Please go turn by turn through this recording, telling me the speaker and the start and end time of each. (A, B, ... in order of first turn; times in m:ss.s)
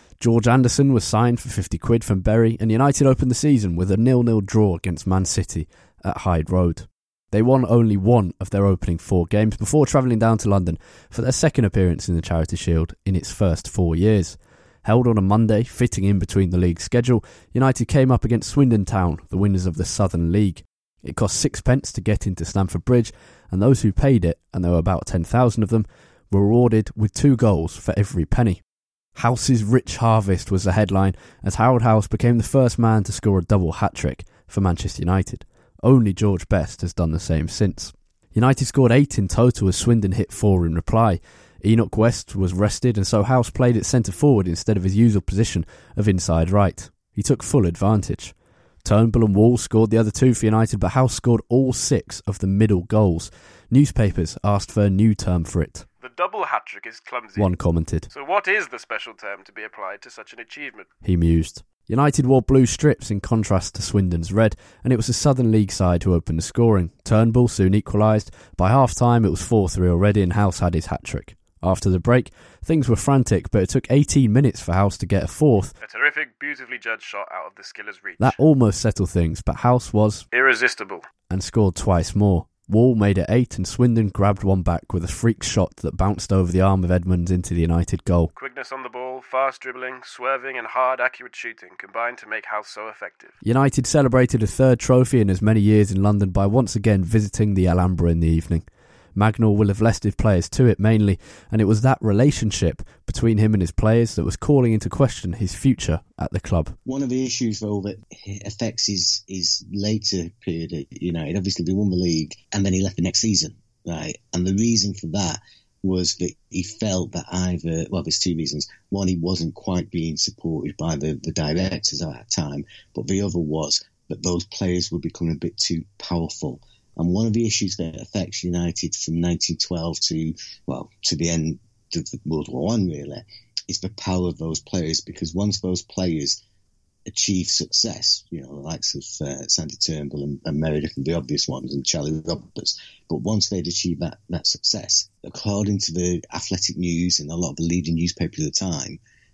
0:00.2-0:28.6 A
0:29.2-0:55.8 A
0:56.0-0:57.5 B
0:57.4-0:58.1 A
0:58.1-1:00.9 B
1:01.0-1:15.7 A
1:15.8-1:18.4 B
1:18.2-1:20.2 A
1:20.3-1:21.1 B
1:21.3-1:28.3 A
1:28.3-1:33.3 B
1:33.4-1:38.6 A
1:39.2-1:46.8 A
1:46.8-2:16.4 C
2:17.1-2:29.0 C